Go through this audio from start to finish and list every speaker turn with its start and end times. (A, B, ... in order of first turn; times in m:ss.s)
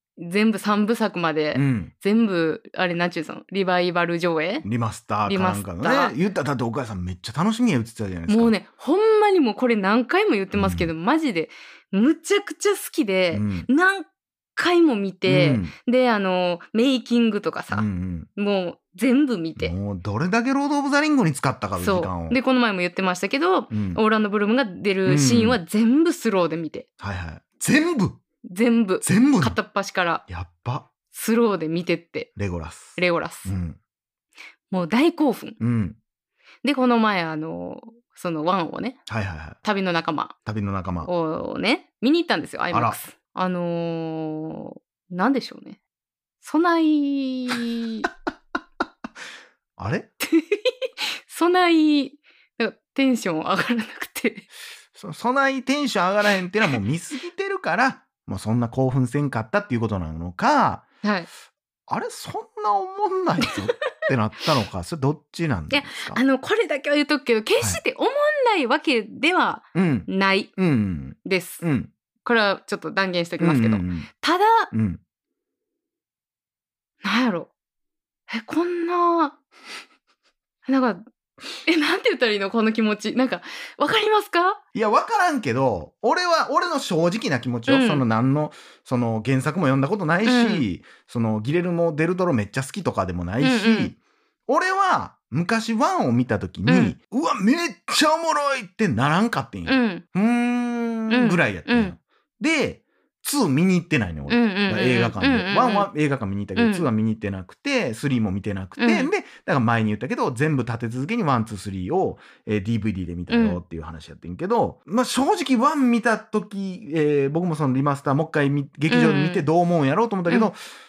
0:00.2-0:04.6 A
0:01.5-0:01.9 B
0:04.6-0:08.6 B
0:05.2-0:06.1 A
0:08.3-0:17.8 A
0:10.5-0:10.9 B
0:13.3-0:13.7 B
0:15.2-0:15.7 B
0:17.7-0:18.3 B
0:18.4-0:19.7 A
0:19.6-0:22.4 B
0:21.8-0:26.8 A
0:23.7-0:24.0 B
0:25.0-0:25.6 B
0:27.0-0:28.2 B
0:28.4-0:30.2 A
0:29.0-0:29.6 B
0:30.3-0:30.9 B
0:31.1-0:32.3 A
0:32.4-0:33.8 B
0:33.0-0:33.5 A
0:34.7-0:35.6 A
0:35.6-0:36.0 B
0:36.6-0:39.0 A
0:39.1-0:39.6 B
0:39.6-0:40.3 A
0:40.4-0:41.1 B
0:41.0-0:45.8 A
0:42.7-0:43.0 B
0:46.4-0:48.1 A
0:49.8-0:50.1 B
0:50.2-0:54.5 A
0:54.9-1:00.9 B
1:01.0-1:01.3 A
1:01.9-1:06.2 B
1:05.7-1:10.5 A
1:09.7-1:11.9 B
1:11.2-1:11.6 A
1:12.2-1:14.7 A
1:13.4-1:14.1 B
1:14.7-1:15.0 B
1:17.0-1:17.5 A
1:18.3-1:19.3 A
1:20.6-1:21.0 A
1:21.6-1:24.6 A
1:24.7-1:34.0 B
1:27.7-1:28.0 A
1:30.2-1:30.6 A
1:33.4-1:33.9 A
1:34.5-2:00.6 B
1:36.7-1:36.9 A
1:39.6-1:40.0 A
1:41.1-1:41.9 A
1:44.3-1:45.9 A
1:46.6-1:46.9 A
1:48.8-1:49.1 A
1:53.3-1:53.6 A
1:58.9-1:59.4 A